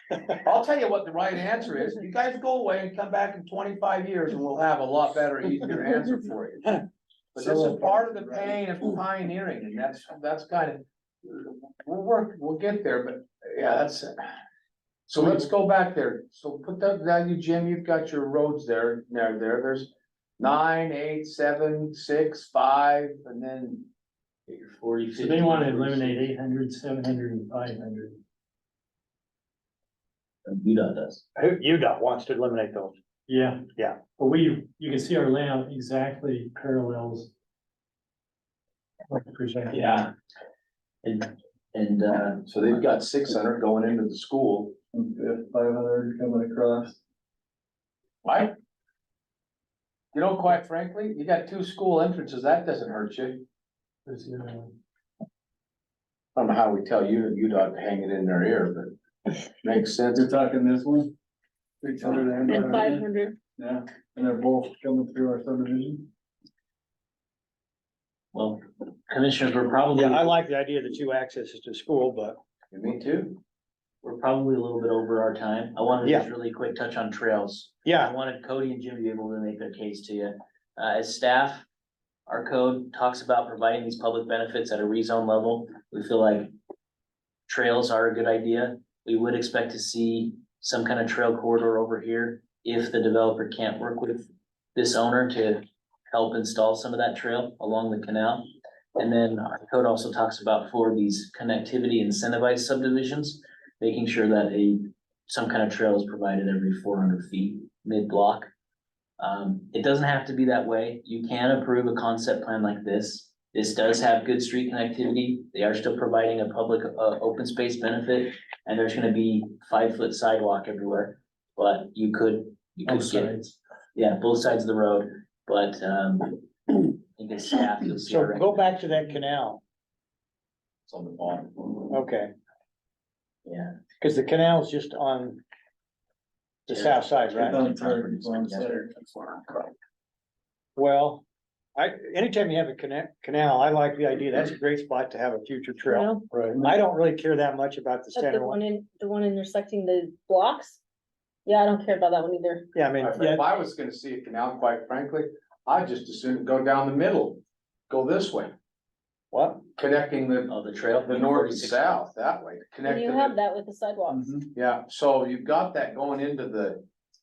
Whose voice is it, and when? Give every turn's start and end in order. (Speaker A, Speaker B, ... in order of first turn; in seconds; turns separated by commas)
Speaker A: 0.4-6.8, Speaker A: 7.3-14.2, Speaker A: 15.1-23.9, Speaker B: 24.5-26.3, Speaker C: 25.2-28.2, Speaker B: 30.5-31.2, Speaker D: 31.4-33.0, Speaker C: 33.3-37.3, Speaker C: 39.1-40.1, Speaker B: 39.7-40.1, Speaker B: 41.0-42.8, Speaker A: 42.5-44.8, Speaker E: 44.9-47.0, Speaker A: 48.2-48.5, Speaker A: 50.1-53.4, Speaker C: 54.1-54.7, Speaker A: 56.4-59.0, Speaker A: 59.6-60.3, Speaker E: 60.1-61.1, Speaker E: 61.8-66.1, Speaker F: 62.5-63.4, Speaker B: 68.3-70.3, Speaker D: 69.9-72.4, Speaker A: 72.7-73.3, Speaker B: 74.0-81.6, Speaker D: 76.0-76.3, Speaker D: 77.9-78.1, Speaker B: 82.3-86.5, Speaker B: 87.5-108.5, Speaker B: 109.2-123.4, Speaker C: 122.9-123.5, Speaker B: 124.0-129.0, Speaker D: 128.0-129.6, Speaker A: 130.9-131.7, Speaker D: 131.9-132.3, Speaker B: 133.5-133.7, Speaker D: 134.0-135.4, Speaker D: 136.7-137.6, Speaker B: 136.7-138.8, Speaker E: 137.3-139.5, Speaker D: 140.8-141.2, Speaker D: 141.8-146.1, Speaker F: 145.9-146.3, Speaker E: 146.3-146.7, Speaker D: 146.6-148.6, Speaker F: 148.2-150.8, Speaker F: 151.5-152.7, Speaker D: 152.8-153.5, Speaker A: 153.0-158.5, Speaker D: 159.3-159.6, Speaker A: 159.7-160.5, Speaker B: 160.5-161.9, Speaker A: 161.1-163.4, Speaker F: 162.8-164.3, Speaker E: 164.1-164.5, Speaker A: 164.5-166.8